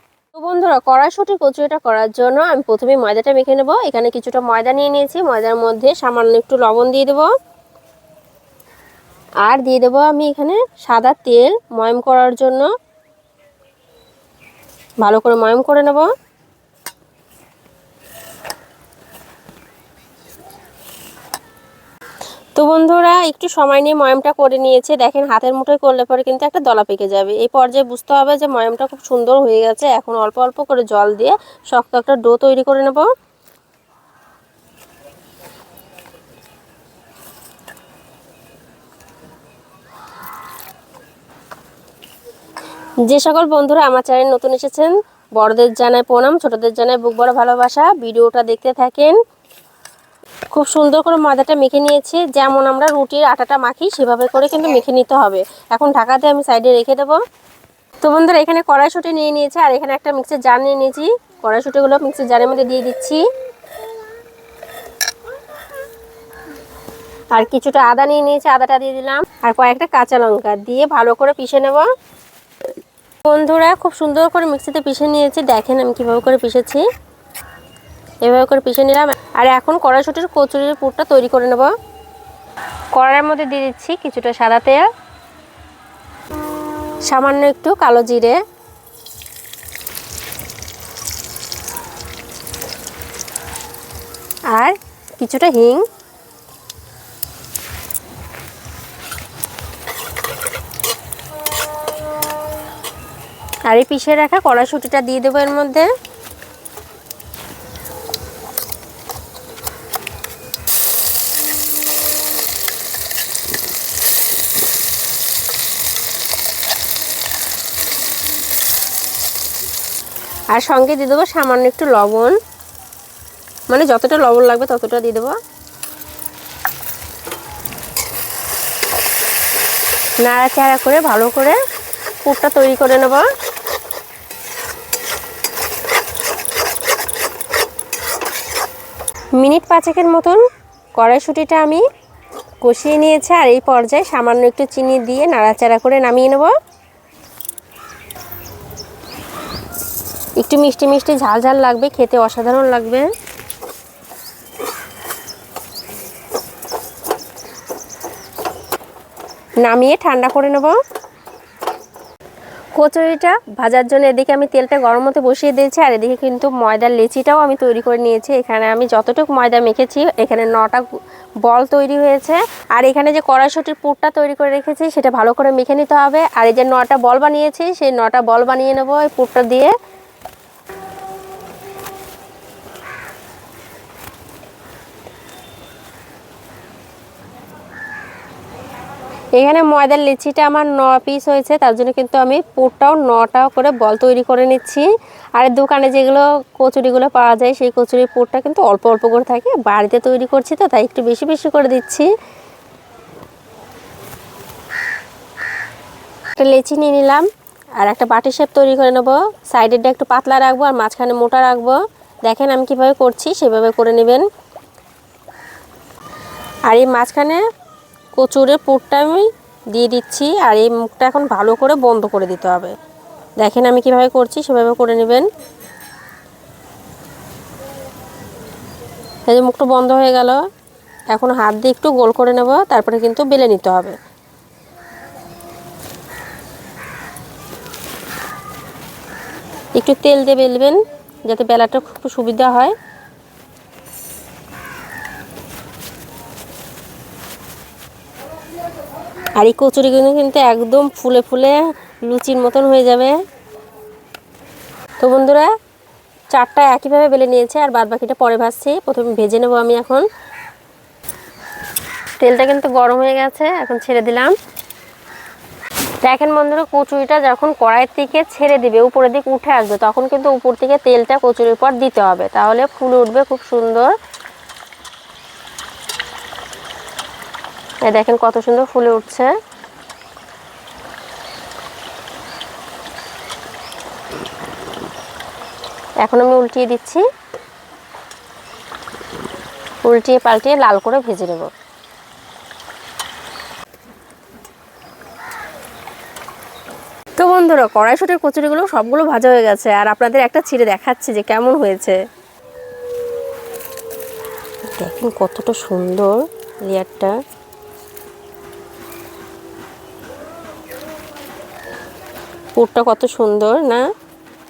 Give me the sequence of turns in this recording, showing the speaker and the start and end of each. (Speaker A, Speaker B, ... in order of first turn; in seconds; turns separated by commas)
Speaker A: 0.3-7.3, Speaker A: 9.4-12.7, Speaker A: 15.0-16.1, Speaker A: 22.6-33.1, Speaker A: 43.1-49.2, Speaker A: 50.5-57.2, Speaker A: 58.0-63.2, Speaker A: 67.3-71.9, Speaker A: 73.2-76.8, Speaker A: 78.2-81.7, Speaker A: 82.9-84.9, Speaker A: 87.0-88.4, Speaker A: 94.5-95.8, Speaker A: 103.7-105.9, Speaker A: 120.5-122.4, Speaker A: 123.7-125.3, Speaker A: 130.2-131.6, Speaker A: 132.2-133.3, Speaker A: 139.4-140.4, Speaker A: 140.9-141.8, Speaker A: 142.6-146.5, Speaker A: 150.4-153.1, Speaker A: 159.6-160.8, Speaker A: 162.8-170.9, Speaker A: 171.4-179.7, Speaker A: 189.4-202.1, Speaker A: 206.4-207.3, Speaker A: 207.8-214.3, Speaker A: 216.7-217.4, Speaker A: 218.2-222.8, Speaker A: 223.4-225.3, Speaker A: 229.3-230.4, Speaker A: 231.1-234.0, Speaker A: 239.8-242.8, Speaker A: 249.4-253.2, Speaker A: 255.0-255.5, Speaker A: 256.3-260.1, Speaker A: 262.2-264.3, Speaker A: 266.0-273.9, Speaker A: 277.9-279.3, Speaker A: 286.0-287.0, Speaker A: 289.9-291.5, Speaker A: 297.2-302.0, Speaker A: 304.7-307.2, Speaker A: 312.6-313.9